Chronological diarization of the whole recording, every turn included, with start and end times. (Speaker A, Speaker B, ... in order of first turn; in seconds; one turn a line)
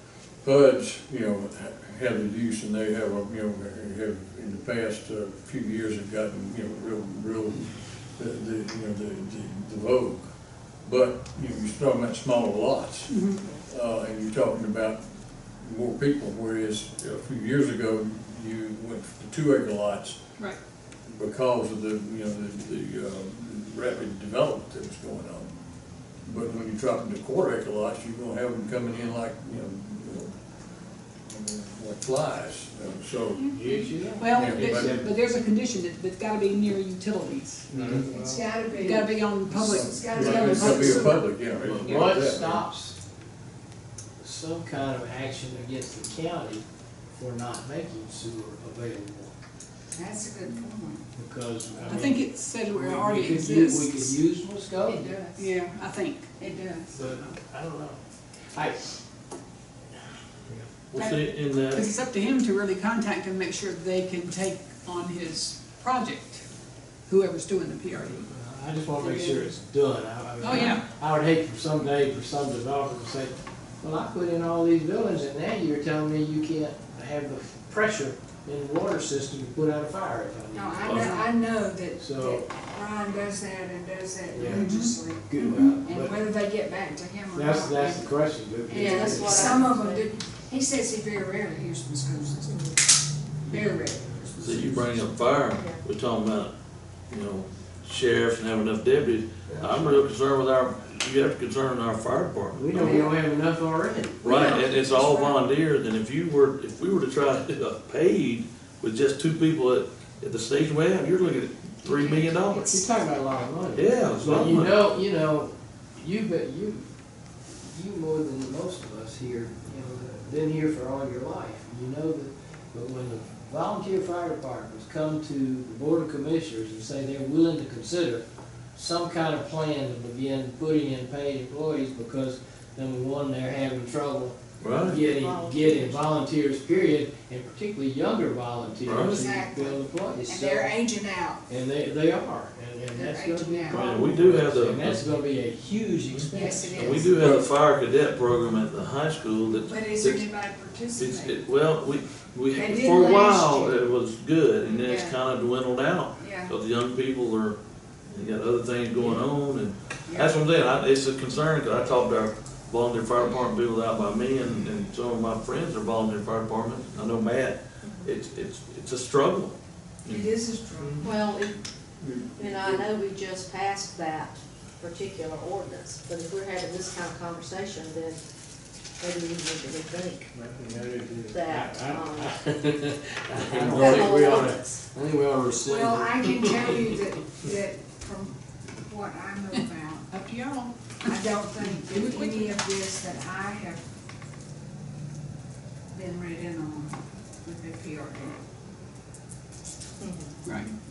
Speaker A: 0.4-10.2
Speaker A: 10.8-15.0
Speaker B: 13.1-13.4
Speaker A: 15.6-20.2
Speaker A: 21.1-25.5
Speaker A: 26.3-30.4
Speaker A: 31.3-33.5
Speaker C: 33.5-35.1
Speaker B: 33.6-37.7
Speaker A: 34.3-35.1
Speaker A: 37.7-38.1
Speaker C: 37.7-38.5
Speaker D: 38.0-41.1
Speaker B: 38.8-41.3
Speaker A: 39.5-42.6
Speaker C: 41.6-43.0
Speaker C: 44.2-49.3
Speaker D: 49.9-51.0
Speaker C: 51.2-55.2
Speaker B: 51.9-54.1
Speaker D: 54.8-55.5
Speaker B: 55.4-56.2
Speaker D: 56.4-57.0
Speaker C: 57.0-58.0
Speaker C: 58.5-58.9
Speaker E: 60.9-61.9
Speaker B: 61.0-66.4
Speaker B: 67.1-68.3
Speaker C: 68.1-81.2
Speaker B: 69.0-69.5
Speaker B: 70.4-70.8
Speaker D: 80.5-88.1
Speaker E: 80.8-81.2
Speaker C: 82.0-82.5
Speaker C: 84.3-86.2
Speaker B: 84.5-85.8
Speaker C: 87.3-89.6
Speaker D: 88.7-92.6
Speaker F: 88.7-90.1
Speaker F: 92.4-92.8
Speaker C: 93.5-93.8
Speaker D: 93.5-95.1
Speaker E: 94.4-96.5
Speaker F: 95.3-95.8
Speaker E: 97.1-103.1
Speaker C: 99.5-99.9
Speaker C: 102.5-104.2
Speaker D: 102.8-103.1
Speaker F: 104.2-104.8
Speaker E: 104.2-112.8
Speaker D: 104.6-105.4
Speaker D: 111.8-112.7
Speaker C: 112.7-116.8
Speaker E: 113.8-114.8
Speaker C: 117.6-140.8
Speaker E: 134.6-135.0
Speaker F: 134.9-136.0
Speaker E: 138.8-139.2
Speaker D: 138.9-141.4
Speaker C: 141.5-147.2
Speaker D: 142.9-143.9
Speaker E: 143.7-145.0
Speaker E: 146.1-150.2
Speaker D: 146.3-147.3
Speaker D: 149.6-151.4
Speaker E: 151.0-157.6
Speaker D: 152.5-153.9
Speaker D: 154.7-155.2
Speaker D: 156.2-156.6
Speaker E: 158.1-170.3
Speaker D: 160.1-160.4
Speaker F: 167.8-168.1
Speaker D: 170.1-171.2
Speaker F: 171.0-171.6
Speaker A: 172.0-172.9
Speaker F: 172.4-178.2
Speaker F: 179.0-180.3
Speaker C: 180.4-186.9
Speaker F: 181.3-182.3
Speaker A: 183.4-184.1
Speaker F: 183.7-184.8
Speaker D: 185.6-190.1
Speaker B: 189.5-191.1
Speaker D: 191.1-193.8
Speaker B: 191.7-192.6
Speaker D: 195.9-198.4
Speaker F: 200.0-200.4
Speaker B: 200.4-200.7